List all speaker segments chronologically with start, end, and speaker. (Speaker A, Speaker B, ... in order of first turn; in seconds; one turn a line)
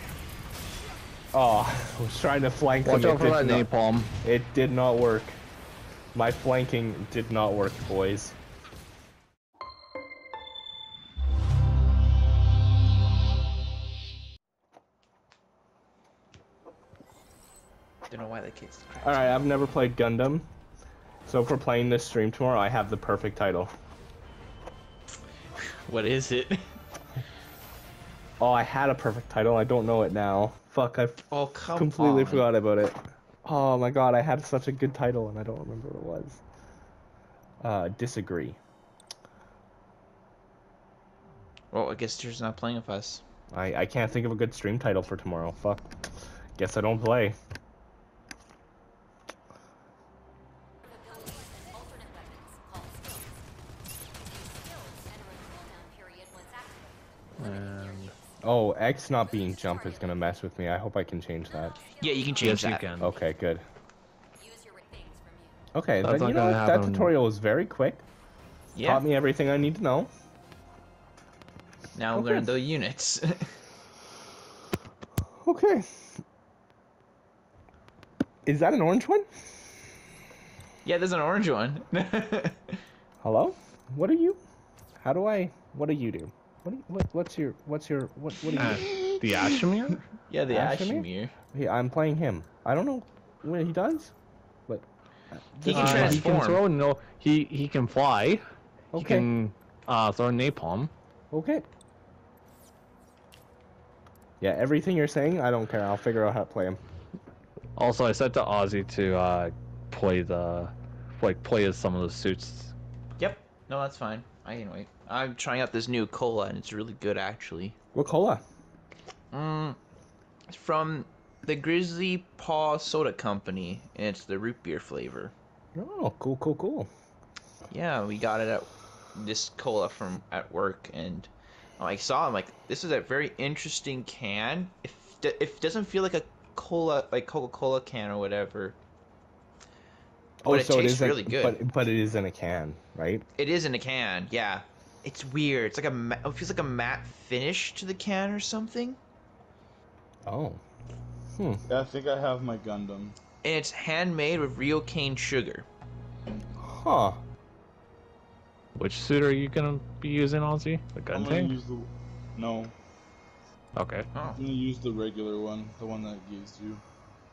Speaker A: 1.3-3.7
Speaker B: 2.8-4.2
Speaker A: 4.2-5.4
Speaker A: 6.1-8.3
Speaker C: 18.1-19.3
Speaker A: 19.0-20.5
Speaker A: 21.2-23.7
Speaker C: 25.6-26.7
Speaker A: 28.4-36.4
Speaker C: 31.3-32.5
Speaker A: 37.6-38.6
Speaker C: 41.7-43.2
Speaker A: 43.5-45.9
Speaker A: 46.6-47.4
Speaker D: 51.1-53.2
Speaker D: 54.3-58.1
Speaker B: 57.4-58.1
Speaker A: 58.4-61.8
Speaker D: 59.4-60.3
Speaker D: 61.7-62.6
Speaker C: 62.0-62.9
Speaker B: 62.4-63.1
Speaker A: 63.0-63.6
Speaker D: 64.4-65.6
Speaker A: 65.7-68.0
Speaker B: 66.0-67.1
Speaker C: 68.7-69.0
Speaker A: 68.8-70.1
Speaker C: 71.9-73.5
Speaker A: 72.1-72.5
Speaker A: 75.4-75.9
Speaker A: 78.5-79.3
Speaker C: 80.8-82.8
Speaker A: 83.2-84.4
Speaker A: 85.0-88.9
Speaker B: 88.6-90.0
Speaker C: 88.8-89.2
Speaker C: 90.3-91.3
Speaker A: 90.5-94.1
Speaker A: 95.5-96.2
Speaker C: 95.6-96.6
Speaker B: 95.7-98.4
Speaker A: 98.9-99.3
Speaker B: 98.9-100.9
Speaker A: 101.3-101.7
Speaker A: 104.4-106.8
Speaker B: 107.8-112.7
Speaker C: 113.2-117.8
Speaker A: 117.9-118.4
Speaker C: 119.3-119.8
Speaker C: 120.5-125.3
Speaker A: 125.7-126.9
Speaker C: 127.7-138.8
Speaker A: 140.4-143.2
Speaker C: 140.4-141.6
Speaker C: 143.3-149.0
Speaker A: 150.2-150.6
Speaker A: 151.4-151.6
Speaker E: 151.7-153.2
Speaker C: 153.4-155.7
Speaker A: 156.6-157.2
Speaker B: 158.8-161.6
Speaker E: 161.1-162.7
Speaker B: 163.7-164.1
Speaker C: 164.1-164.4
Speaker E: 164.3-166.8